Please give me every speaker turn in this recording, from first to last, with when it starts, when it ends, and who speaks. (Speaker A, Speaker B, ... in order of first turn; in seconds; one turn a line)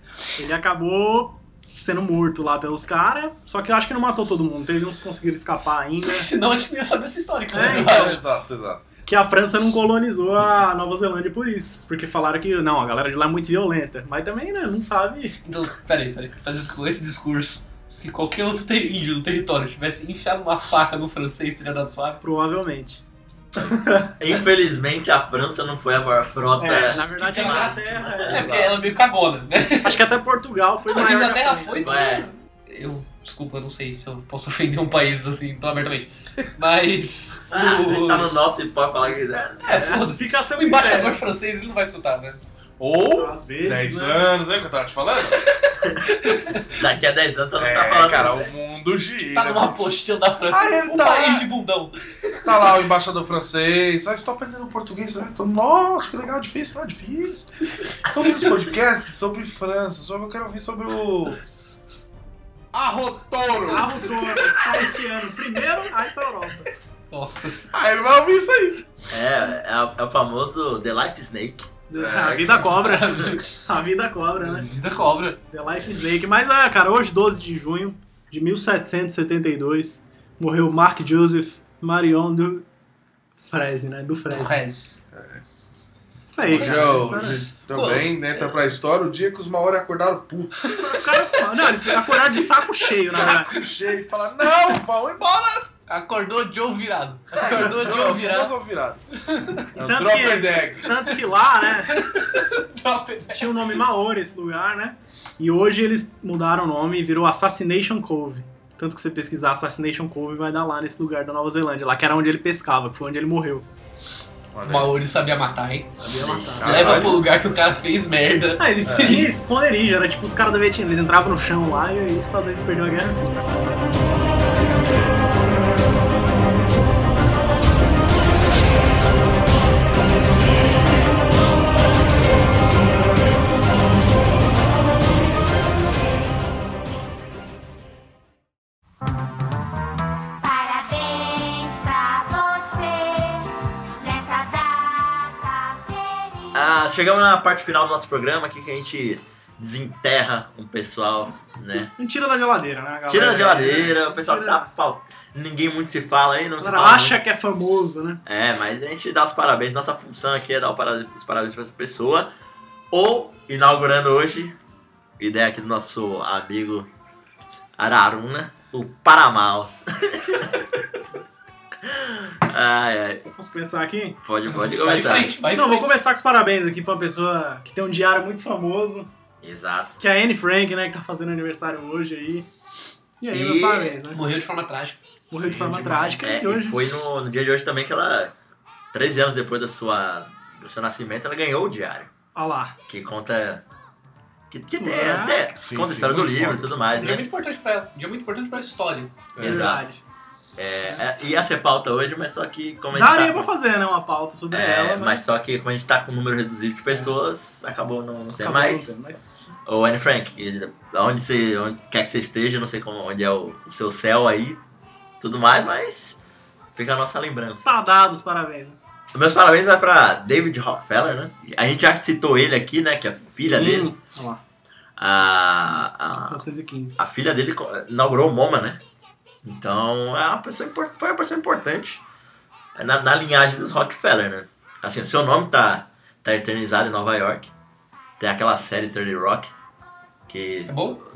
Speaker A: 0.4-6.3
Speaker B: 6.0-8.2
Speaker A: 7.5-8.2
Speaker C: 7.5-8.8
Speaker A: 9.1-15.4
Speaker B: 15.4-22.2
Speaker A: 22.2-23.0
Speaker A: 23.6-24.1
Speaker D: 24.2-28.4
Speaker A: 26.6-28.6
Speaker B: 27.0-30.0
Speaker C: 28.3-28.7
Speaker A: 29.8-32.0
Speaker B: 30.9-38.3
Speaker D: 31.8-32.3
Speaker D: 37.5-39.7
Speaker B: 39.6-42.4
Speaker A: 39.7-41.2
Speaker C: 42.8-45.4
Speaker A: 43.1-44.3
Speaker B: 46.0-46.7
Speaker D: 46.8-48.5
Speaker C: 47.6-49.9
Speaker B: 49.2-52.8
Speaker C: 50.5-51.5
Speaker C: 52.4-57.5
Speaker A: 58.1-58.7
Speaker C: 58.1-61.4
Speaker C: 62.7-64.1
Speaker A: 63.7-66.7
Speaker B: 67.1-67.7
Speaker C: 67.7-68.8
Speaker D: 69.1-71.7
Speaker A: 71.9-74.7
Speaker C: 72.0-72.8
Speaker B: 72.6-73.6
Speaker B: 74.5-75.4
Speaker A: 75.5-82.7
Speaker A: 83.4-84.5
Speaker B: 84.3-84.9
Speaker C: 85.1-85.4
Speaker A: 86.3-87.4
Speaker C: 86.4-90.7
Speaker B: 86.5-88.2
Speaker B: 90.7-91.0
Speaker A: 90.8-93.5
Speaker C: 93.0-95.7
Speaker B: 95.9-98.5
Speaker C: 97.3-99.0
Speaker B: 99.2-99.7
Speaker C: 99.8-100.9
Speaker A: 99.8-102.1
Speaker B: 101.8-103.7
Speaker A: 103.3-113.7
Speaker C: 114.5-115.0
Speaker B: 114.6-119.3
Speaker D: 116.0-117.2
Speaker A: 116.4-117.2
Speaker C: 116.6-117.2
Speaker A: 118.6-123.8
Speaker C: 118.9-119.2
Speaker E: 140.4-143.5
Speaker E: 144.0-146.7
Speaker D: 146.5-151.9
Speaker A: 152.0-154.7
Speaker D: 153.1-157.2
Speaker A: 156.6-158.2
Speaker D: 158.2-162.3
Speaker D: 162.9-164.6
Speaker D: 165.2-166.9
Speaker D: 167.8-170.7
Speaker D: 171.8-173.3
Speaker A: 173.3-174.2
Speaker D: 174.2-175.3
Speaker B: 174.5-175.9
Speaker A: 175.5-179.1
Speaker D: 179.4-180.0
Speaker A: 180.0-182.5
Speaker A: 183.2-184.2
Speaker D: 183.3-184.0
Speaker B: 184.1-185.0
Speaker A: 185.3-186.8
Speaker C: 185.4-186.1
Speaker D: 185.4-188.3
Speaker D: 188.9-192.1
Speaker A: 192.3-192.8
Speaker D: 192.9-193.7
Speaker D: 194.5-197.2
Speaker A: 194.8-195.6
Speaker C: 195.6-196.8
Speaker B: 197.0-199.2
Speaker C: 199.4-199.7
Speaker D: 199.4-199.8
Speaker A: 199.4-200.0
Speaker D: 200.6-203.5
Speaker A: 202.9-205.3
Speaker D: 204.5-209.0
Speaker A: 208.4-209.2
Speaker D: 209.7-214.6
Speaker D: 215.2-216.2
Speaker D: 216.8-217.7
Speaker A: 217.7-218.8
Speaker D: 219.1-223.9
Speaker A: 223.4-224.4
Speaker D: 225.0-226.4
Speaker A: 226.3-227.0
Speaker D: 227.0-228.8
Speaker D: 229.4-232.0
Speaker D: 232.8-237.5
Speaker D: 238.2-239.5
Speaker D: 240.3-240.8
Speaker B: 240.7-241.0